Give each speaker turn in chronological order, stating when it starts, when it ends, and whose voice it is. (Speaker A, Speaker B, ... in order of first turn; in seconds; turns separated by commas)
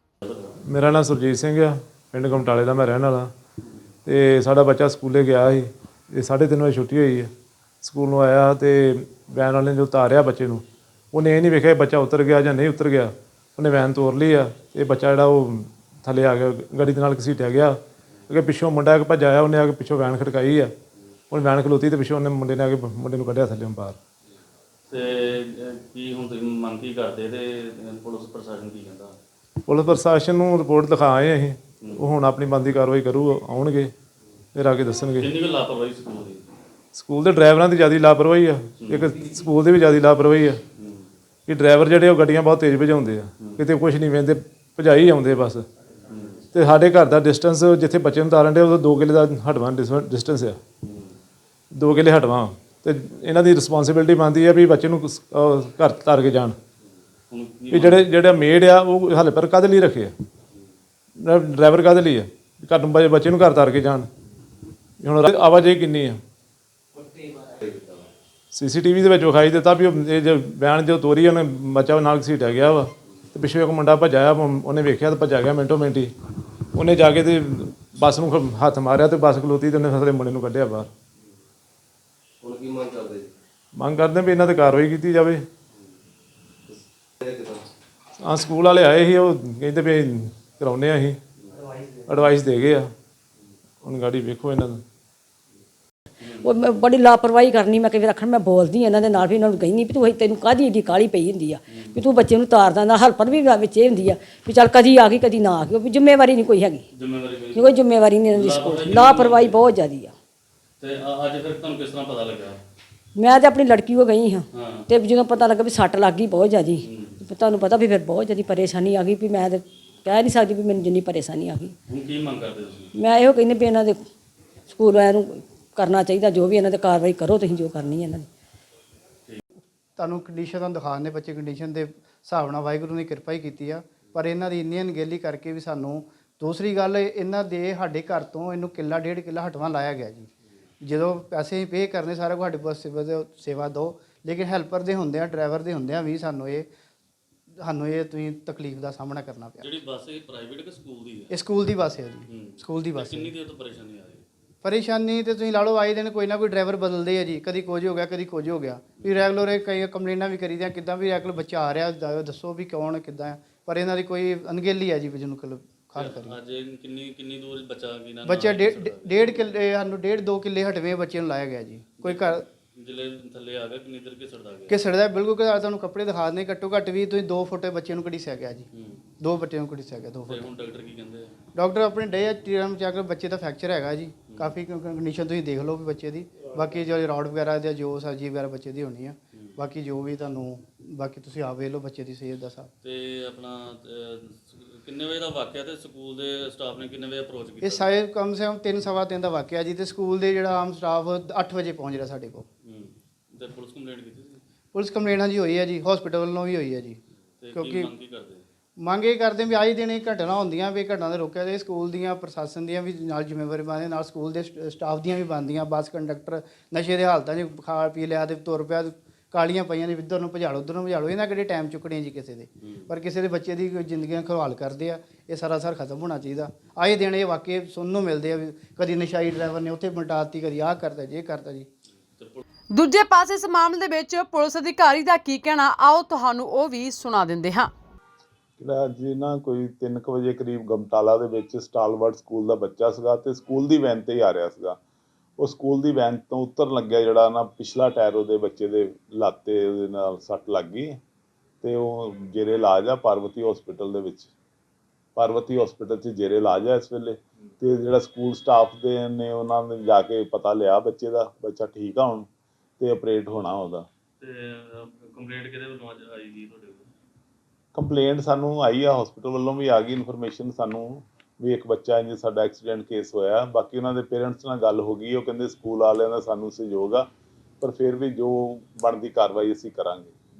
Speaker A: 0.2-0.5, Speaker B: 0.6-3.3, Speaker B: 4.0-7.3, Speaker B: 7.8-20.7, Speaker B: 21.3-24.0, Speaker A: 24.9-29.1, Speaker B: 29.7-33.9, Speaker B: 34.5-35.3, Speaker A: 35.2-36.4, Speaker B: 36.9-40.6, Speaker A: 38.8-39.1, Speaker A: 40.8-41.1, Speaker B: 41.5-45.7, Speaker A: 46.1-46.4, Speaker B: 46.5-50.6, Speaker A: 50.8-51.1, Speaker B: 51.7-56.6, Speaker A: 57.3-58.0, Speaker B: 57.7-60.1, Speaker B: 61.2-64.1, Speaker B: 65.0-66.2, Speaker C: 67.2-68.1, Speaker B: 68.5-76.1, Speaker B: 76.7-80.9, Speaker C: 82.4-83.3, Speaker B: 83.8-85.4, Speaker C: 86.7-87.6, Speaker B: 88.2-91.2, Speaker B: 92.0-92.9, Speaker B: 93.8-94.8, Speaker D: 96.3-106.8, Speaker A: 101.7-102.0, Speaker A: 106.9-107.7, Speaker D: 107.5-110.1, Speaker A: 108.3-109.6, Speaker A: 110.8-112.6, Speaker D: 113.2-121.8, Speaker A: 114.5-114.9, Speaker A: 116.8-117.2, Speaker A: 121.9-122.9, Speaker D: 123.0-124.0, Speaker D: 124.7-128.3, Speaker E: 130.0-140.3, Speaker E: 140.8-146.7, Speaker E: 147.6-149.7, Speaker A: 149.6-151.3, Speaker E: 151.3-153.3, Speaker A: 152.3-154.2, Speaker E: 154.6-166.4, Speaker A: 166.0-169.5, Speaker E: 168.2-172.4, Speaker A: 172.0-174.8, Speaker E: 174.7-178.7, Speaker A: 178.7-179.0, Speaker E: 179.2-180.5, Speaker A: 180.3-181.3, Speaker E: 181.5-192.7, Speaker A: 184.3-184.5, Speaker A: 192.8-197.9, Speaker E: 197.6-202.5, Speaker A: 202.7-204.4, Speaker E: 204.7-207.0, Speaker A: 207.4-208.4, Speaker E: 207.5-207.9, Speaker E: 208.8-231.7, Speaker F: 232.7-237.7, Speaker G: 238.6-244.8, Speaker G: 245.4-251.0, Speaker G: 251.6-254.3, Speaker G: 255.2-262.3, Speaker G: 262.8-263.9, Speaker A: 264.2-266.9, Speaker G: 267.7-277.1, Speaker G: 277.6-280.1